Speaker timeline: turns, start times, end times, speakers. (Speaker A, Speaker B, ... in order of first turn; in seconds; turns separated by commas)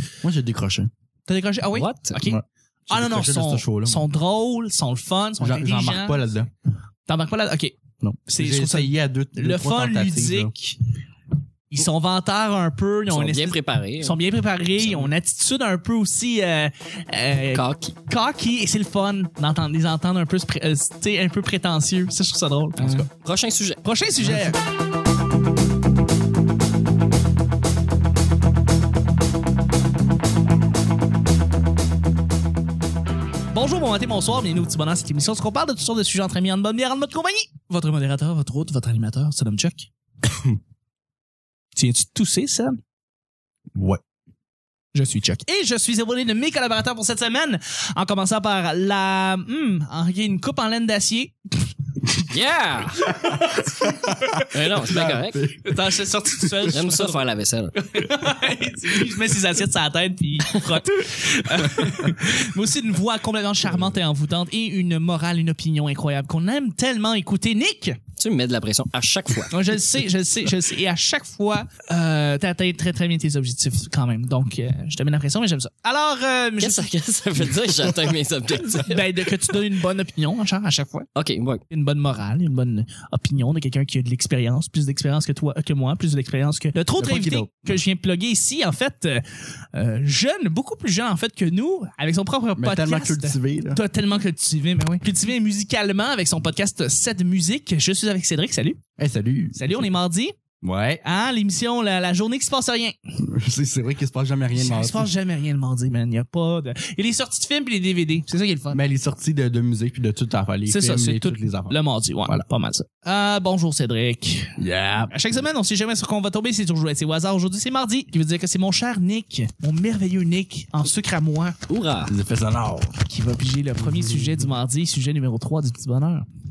Speaker A: 0.2-0.9, Speaker B: 1.3-2.4, Speaker C: 1.7-2.2, Speaker A: 2.2-4.1, Speaker B: 2.9-6.2, Speaker A: 5.4-6.5, Speaker B: 7.1-7.8, Speaker A: 8.0-10.5, Speaker B: 8.3-10.8, Speaker B: 11.7-23.1, Speaker C: 13.1-14.2, Speaker C: 14.8-15.1, Speaker C: 17.5-17.9, Speaker C: 23.1-23.8, Speaker B: 23.8-24.6, Speaker B: 33.5-39.9, Speaker B: 41.8-42.8, Speaker A: 43.8-44.0, Speaker B: 44.9-51.7, Speaker C: 52.3-53.2, Speaker B: 53.2-54.5, Speaker A: 53.2-56.7, Speaker C: 54.5-55.5, Speaker B: 55.6-57.2, Speaker C: 56.7-57.8, Speaker B: 57.8-68.0, Speaker C: 60.5-60.8, Speaker A: 61.6-62.1, Speaker C: 68.2-69.6, Speaker B: 69.5-76.9, Speaker C: 76.6-79.2, Speaker B: 78.8-81.1, Speaker C: 81.2-81.6, Speaker B: 81.7-89.2, Speaker A: 87.0-87.7, Speaker B: 89.7-98.8, Speaker A: 92.6-93.8, Speaker A: 99.0-99.9, Speaker B: 99.5-100.4, Speaker A: 100.6-101.0, Speaker B: 101.0-102.9, Speaker A: 103.2-105.1, Speaker B: 104.5-108.8, Speaker A: 108.7-112.4, Speaker B: 110.7-114.6, Speaker A: 114.6-115.1, Speaker B: 115.1-121.6, Speaker C: 121.7-122.1, Speaker A: 122.1-123.0, Speaker B: 123.1-126.3, Speaker A: 123.8-124.5